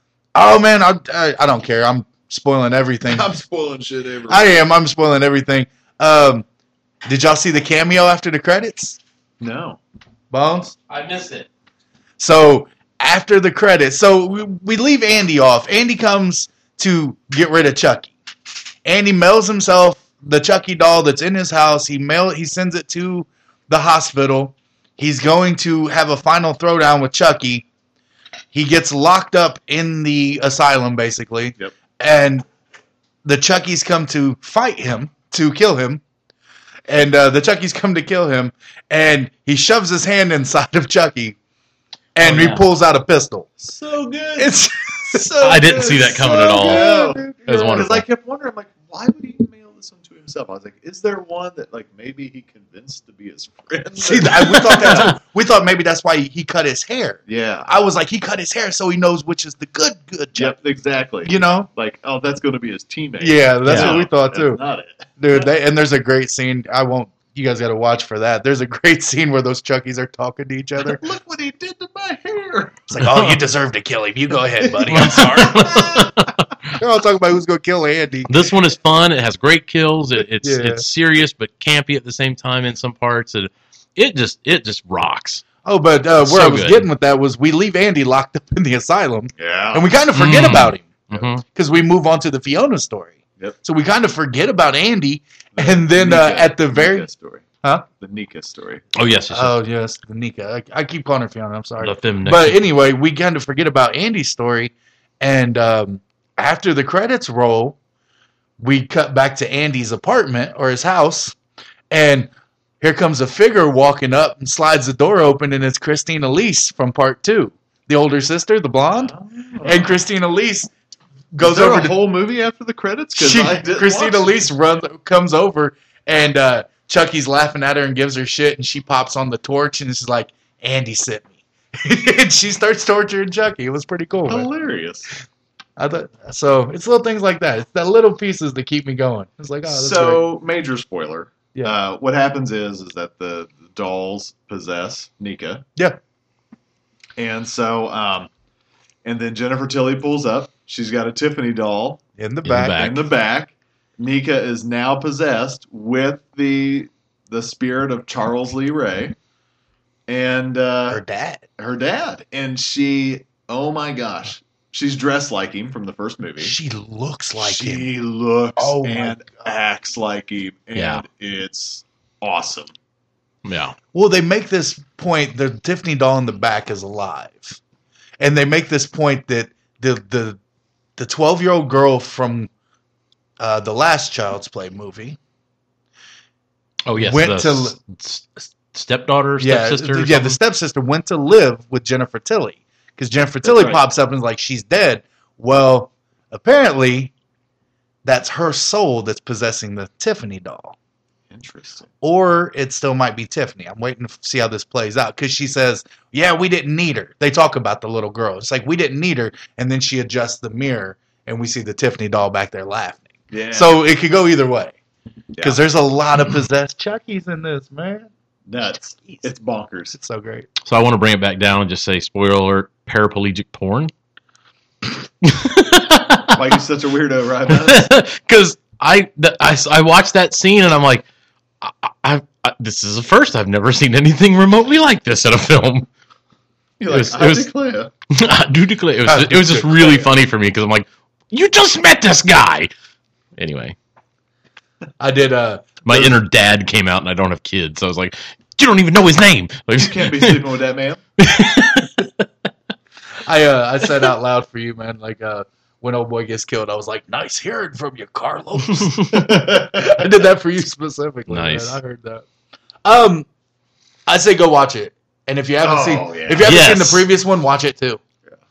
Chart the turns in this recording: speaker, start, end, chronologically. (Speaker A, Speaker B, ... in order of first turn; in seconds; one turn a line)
Speaker A: 0.3-3.3
Speaker B: 3.1-4.6
Speaker A: 4.3-6.5
Speaker A: 7.0-9.0
Speaker B: 9.4-9.8
Speaker A: 10.3-10.7
Speaker C: 10.9-11.5
Speaker A: 12.2-18.1
Speaker A: 18.8-27.6
Speaker A: 28.5-32.5
Speaker A: 33.2-36.0
Speaker A: 36.9-41.4
Speaker A: 42.1-43.5
Speaker C: 42.2-42.6
Speaker B: 43.6-55.1
Speaker A: 44.4-45.3
Speaker C: 45.4-46.9
Speaker A: 46.0-47.8
Speaker C: 47.5-48.0
Speaker A: 54.0-60.5
Speaker C: 54.9-55.1
Speaker B: 57.3-57.7
Speaker B: 60.4-65.5
Speaker A: 61.2-61.7
Speaker A: 63.2-64.6
Speaker C: 63.6-64.0
Speaker A: 65.2-71.0
Speaker B: 70.8-72.9
Speaker A: 72.9-75.7
Speaker C: 73.0-73.3
Speaker C: 74.9-76.8
Speaker B: 74.9-76.1
Speaker A: 76.8-78.5
Speaker C: 78.3-85.4
Speaker A: 80.3-80.8
Speaker A: 85.6-97.1
Speaker C: 86.2-86.9
Speaker B: 89.4-89.9
Speaker C: 90.1-91.4
Speaker B: 95.5-97.5
Speaker B: 98.0-98.9
Speaker C: 98.9-99.5
Speaker A: 99.3-107.8
Speaker C: 101.8-102.7
Speaker A: 108.6-111.4
Speaker A: 111.9-119.1
Speaker B: 118.9-120.0
Speaker A: 119.6-120.7
Speaker A: 121.3-122.0
Speaker B: 121.4-124.4
Speaker A: 123.2-134.5
Speaker B: 134.3-135.1
Speaker A: 135.8-140.2
Speaker B: 139.6-145.6
Speaker B: 147.2-148.3
Speaker B: 149.0-152.0
Speaker A: 152.2-152.8
Speaker C: 152.4-153.0
Speaker B: 152.7-159.1
Speaker B: 160.1-161.0
Speaker A: 160.9-161.4
Speaker B: 161.6-166.6
Speaker A: 166.4-167.9
Speaker B: 167.4-172.7
Speaker A: 168.6-169.4
Speaker C: 170.8-171.0
Speaker C: 173.4-173.7
Speaker A: 173.9-177.6
Speaker A: 178.2-180.4
Speaker A: 181.0-182.5
Speaker A: 183.4-185.2
Speaker C: 186.9-190.4
Speaker A: 187.0-187.8
Speaker A: 189.4-197.1
Speaker B: 193.4-193.8
Speaker A: 198.0-200.8
Speaker B: 201.3-201.9
Speaker A: 202.0-214.8
Speaker B: 213.3-213.8
Speaker B: 215.3-215.6
Speaker A: 215.4-218.1
Speaker B: 218.5-219.9
Speaker A: 219.9-220.5
Speaker C: 220.6-223.9
Speaker C: 225.2-226.4
Speaker B: 226.3-227.9
Speaker C: 227.5-231.0
Speaker C: 231.6-235.9
Speaker B: 236.8-237.9
Speaker C: 236.9-237.5
Speaker C: 238.1-242.7
Speaker A: 239.1-239.8
Speaker B: 239.8-240.1
Speaker C: 243.4-243.8
Speaker A: 245.0-246.1
Speaker C: 245.8-250.4
Speaker B: 249.8-251.0
Speaker C: 251.2-252.2
Speaker A: 253.2-262.2
Speaker B: 259.1-260.1
Speaker C: 261.3-261.8
Speaker A: 262.8-263.3
Speaker A: 264.1-268.0
Speaker B: 265.6-266.7
Speaker C: 266.4-267.1